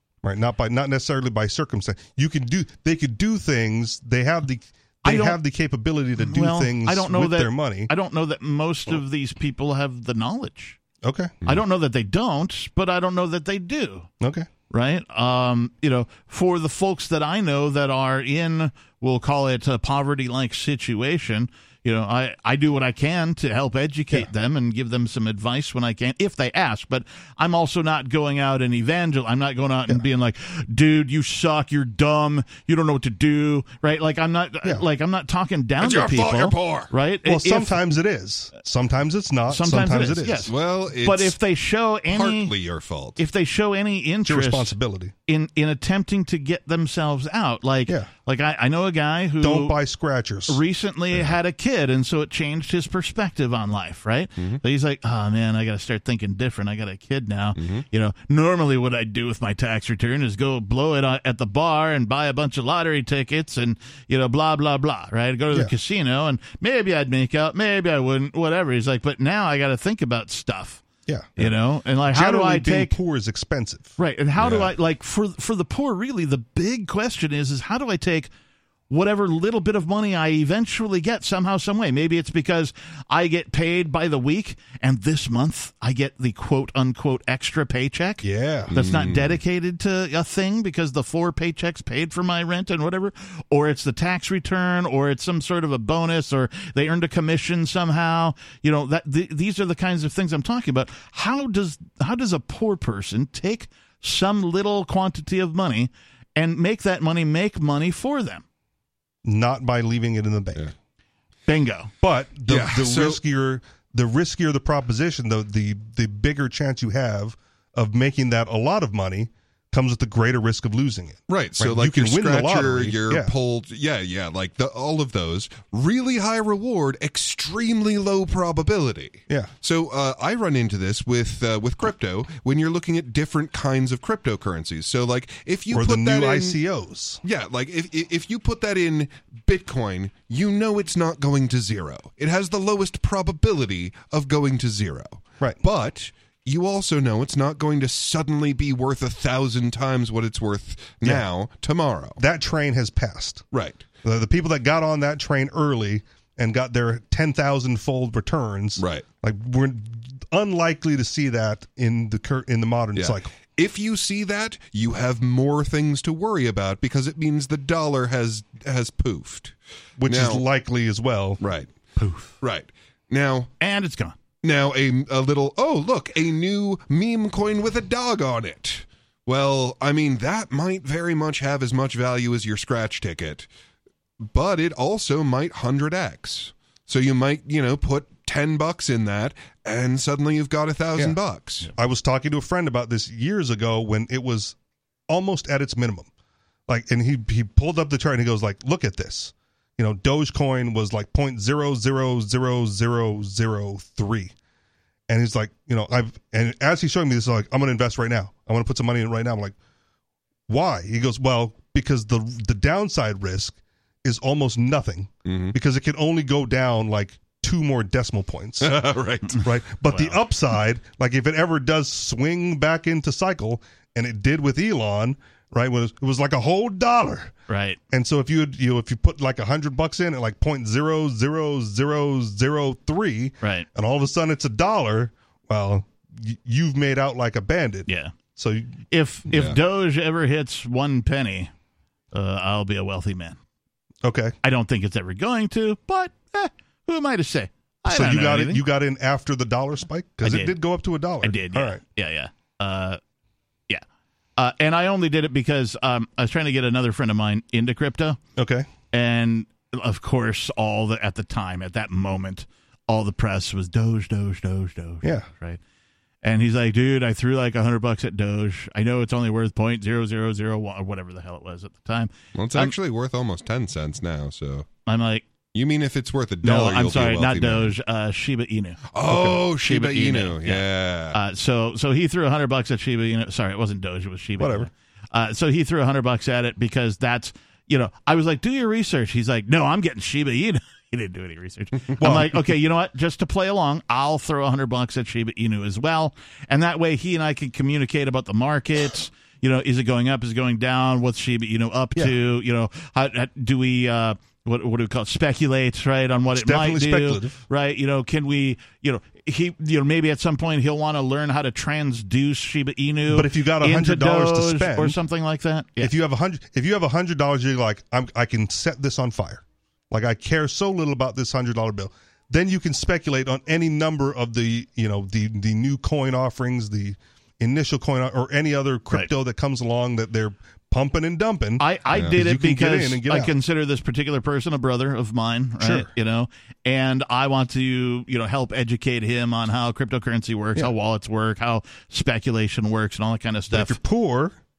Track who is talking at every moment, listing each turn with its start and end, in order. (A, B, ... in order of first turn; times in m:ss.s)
0:00.2-0:07.9 A
0:05.0-0:05.4 B
0:06.3-0:10.8 B
0:11.0-0:11.3 A
0:11.4-0:14.1 B
0:14.2-0:14.5 A
0:14.7-0:37.9 B
0:35.8-0:36.9 C
0:37.2-0:40.5 A
0:39.5-0:42.5 B
0:40.5-0:41.4 C
0:42.1-0:43.2 C
0:43.2-0:44.7 B
0:44.2-0:45.1 A
0:45.3-0:49.8 B
0:49.4-0:50.6 A
0:50.5-1:10.8 B
0:57.6-0:57.8 C
1:11.0-1:11.5 A
1:11.4-1:13.0 B
1:12.1-1:13.9 A
1:14.0-1:18.3 B
1:14.4-1:14.7 C
1:18.9-1:48.4 B
1:28.2-1:28.7 A
1:28.7-1:29.4 C
1:49.2-1:50.6 A
1:51.5-1:51.9 B
1:52.0-2:03.3 A
1:52.5-1:53.2 C
2:01.3-2:16.6 C
2:15.7-2:17.2 A
2:17.2-2:32.2 C
2:32.2-2:33.4 A
2:33.5-2:33.8 C
2:34.0-2:43.3 A
2:38.8-2:39.0 C
2:43.0-2:49.5 C
2:50.0-2:51.4 A
2:50.1-2:50.4 C
2:51.4-2:51.7 C
2:52.0-2:52.3 B
2:52.4-2:53.5 C
2:53.6-2:54.2 B
2:54.4-3:03.5 C
3:04.2-3:11.7 C
3:11.7-3:14.6 A
3:15.1-3:16.1 A
3:16.7-3:24.3 A
3:25.1-3:29.6 A
3:30.5-3:47.3 A
3:35.2-3:35.5 C
3:38.6-3:39.4 C
3:47.5-3:47.8 B
3:47.9-3:58.8 A
3:53.4-3:53.7 B
3:57.9-3:58.1 B
3:58.9-4:01.5 B
3:59.3-3:59.6 C
4:02.1-4:03.4 B
4:04.0-4:04.4 A
4:04.4-4:08.6 B
4:07.9-4:11.8 A
4:10.2-4:10.6 B
4:11.2-4:13.0 B
4:14.4-4:18.2 B
4:18.4-4:18.7 A
4:18.9-4:25.6 B
4:25.0-4:25.3 A
4:26.2-4:32.7 B
4:32.3-4:34.7 C
4:34.8-4:35.2 B
4:35.5-4:37.7 C
4:36.4-5:15.9 B
4:38.9-4:41.2 C
4:44.4-4:44.7 A
4:52.0-4:52.4 A
5:06.3-5:07.4 A
5:13.1-5:15.0 A
5:15.8-5:33.3 A
5:31.6-5:43.8 B
5:35.6-5:35.9 A
5:43.5-5:44.4 A